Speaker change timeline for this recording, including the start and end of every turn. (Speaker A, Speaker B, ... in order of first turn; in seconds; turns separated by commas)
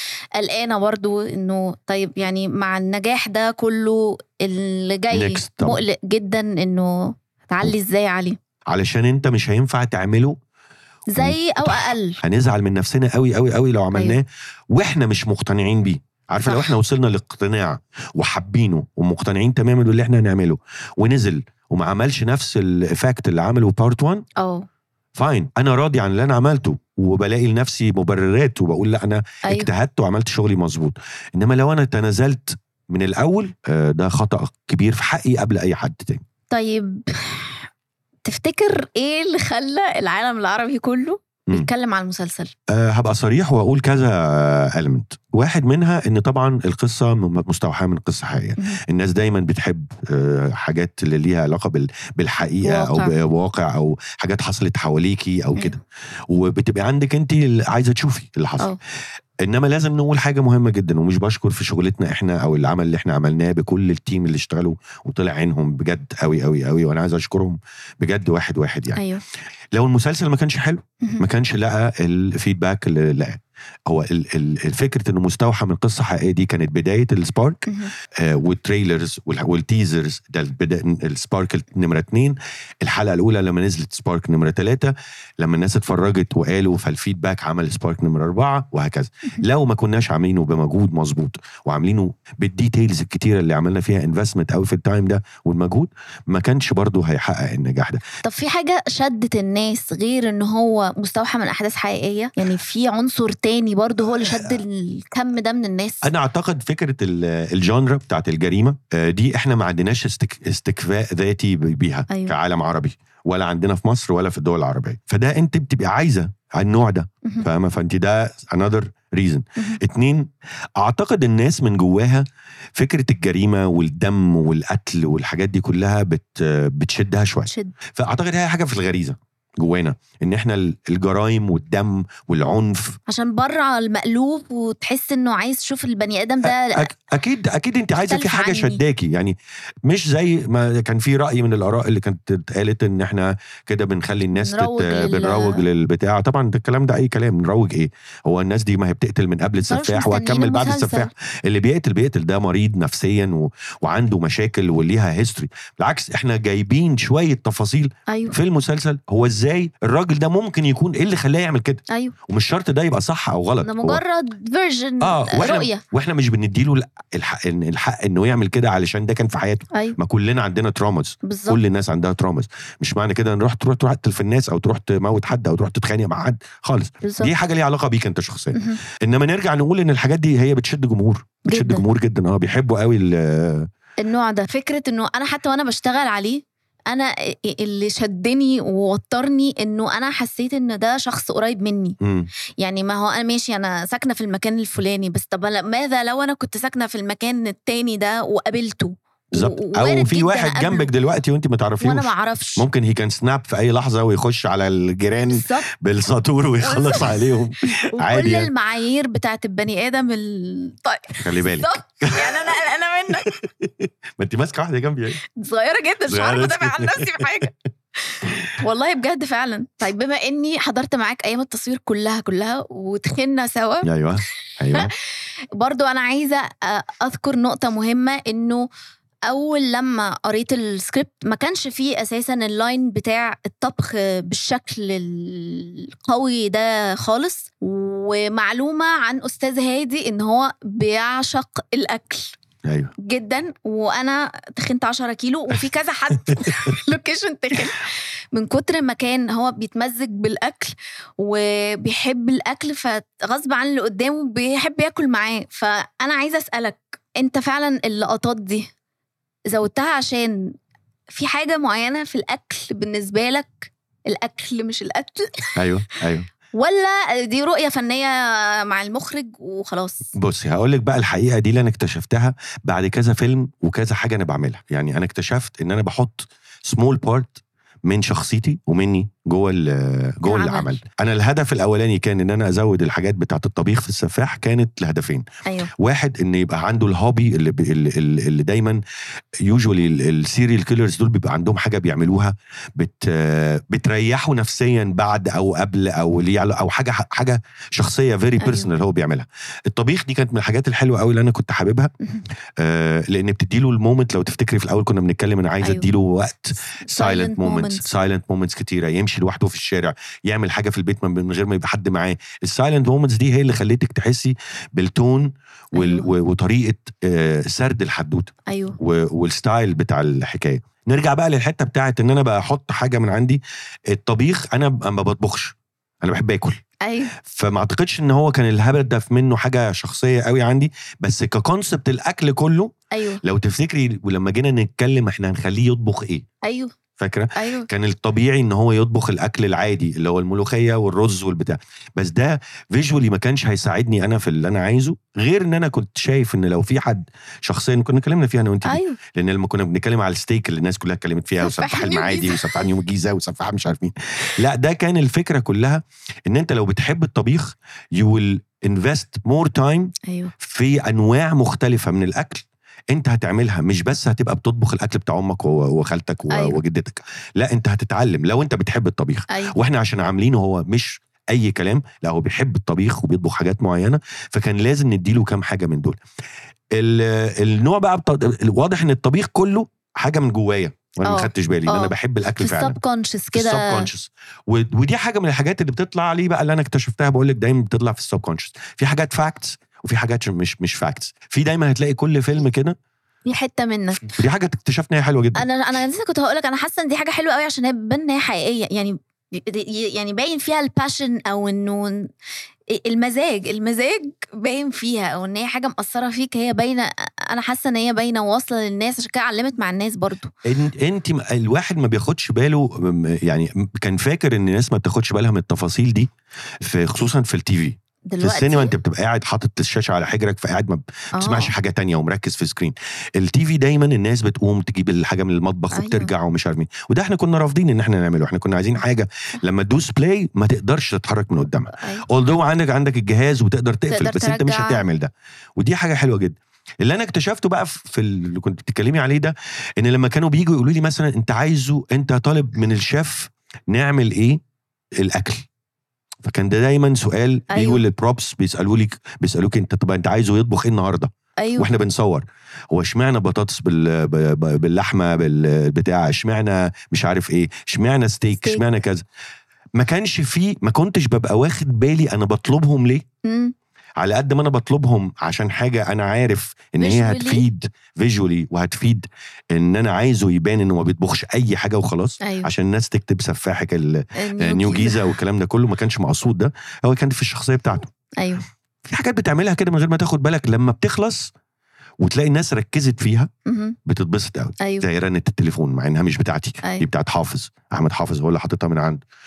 Speaker A: 0.4-8.4, Speaker B: 5.1-5.8, Speaker B: 8.7-10.4, Speaker A: 11.1-12.2, Speaker B: 11.2-24.2, Speaker A: 13.9-14.2, Speaker A: 24.4-24.7, Speaker B: 25.1-36.2, Speaker A: 29.4-29.7, Speaker A: 36.5-37.7, Speaker A: 38.2-42.5, Speaker B: 42.7-58.7, Speaker A: 52.6-53.1, Speaker B: 59.4-69.0, Speaker A: 68.9-69.2, Speaker B: 69.7-98.0, Speaker A: 77.7-77.9, Speaker A: 98.2-106.1, Speaker B: 104.1-104.6, Speaker B: 106.0-133.0, Speaker A: 112.1-112.3, Speaker A: 127.5-127.7, Speaker A: 133.1-136.9, Speaker B: 136.4-164.0, Speaker A: 137.9-138.8, Speaker A: 144.3-145.6, Speaker A: 149.7-151.1, Speaker A: 158.1-158.3, Speaker A: 163.6-165.8, Speaker B: 165.0-183.7, Speaker A: 171.2-171.6, Speaker A: 177.0-177.3, Speaker A: 178.5-178.8, Speaker A: 181.5-181.8, Speaker A: 184.0-192.0, Speaker B: 192.0-192.3, Speaker A: 192.6-200.9, Speaker B: 199.3-208.5, Speaker A: 201.8-202.6, Speaker A: 205.3-205.7, Speaker A: 206.6-213.3, Speaker B: 211.2-212.5, Speaker B: 213.2-215.2, Speaker A: 215.3-217.5, Speaker B: 216.1-217.5, Speaker A: 218.1-223.9, Speaker B: 223.8-224.9, Speaker A: 225.5-228.7, Speaker A: 229.3-242.3, Speaker B: 242.6-242.9, Speaker A: 243.0-258.7, Speaker B: 246.3-246.7, Speaker A: 259.5-260.5, Speaker A: 261.1-265.6, Speaker B: 265.6-266.3, Speaker A: 266.5-270.1, Speaker B: 270.1-288.8, Speaker A: 280.2-280.7, Speaker A: 285.4-285.7, Speaker B: 289.4-301.9, Speaker A: 298.4-298.7, Speaker B: 302.6-326.6, Speaker A: 305.6-305.9, Speaker A: 306.9-307.8, Speaker A: 315.7-316.1, Speaker A: 318.5-318.8, Speaker A: 326.8-327.1, Speaker B: 327.2-336.2, Speaker A: 332.9-333.2, Speaker A: 336.4-336.7, Speaker B: 337.0-376.0, Speaker A: 337.3-337.7, Speaker A: 348.6-349.0, Speaker A: 351.4-352.7, Speaker A: 360.1-360.3, Speaker A: 366.3-366.6, Speaker A: 369.3-369.5, Speaker B: 376.7-382.8, Speaker A: 381.0-383.9, Speaker B: 383.3-392.8, Speaker A: 393.2-394.1, Speaker B: 394.1-395.4, Speaker A: 395.3-402.1, Speaker A: 402.7-410.3, Speaker B: 410.4-416.1, Speaker B: 416.6-444.4, Speaker A: 418.1-418.7, Speaker A: 421.1-421.5, Speaker A: 425.7-426.1, Speaker A: 431.7-432.0, Speaker A: 433.9-434.8, Speaker B: 445.0-445.4, Speaker B: 446.2-459.0, Speaker A: 447.5-447.8, Speaker A: 451.4-451.7, Speaker A: 458.3-458.6, Speaker B: 459.8-463.1, Speaker A: 463.2-463.5, Speaker B: 464.0-477.9, Speaker A: 466.8-467.4, Speaker A: 472.2-472.5, Speaker A: 474.2-475.1, Speaker A: 478.2-478.4, Speaker B: 478.9-481.3, Speaker B: 482.0-483.3, Speaker A: 483.4-483.8, Speaker B: 483.9-489.0, Speaker A: 484.6-484.9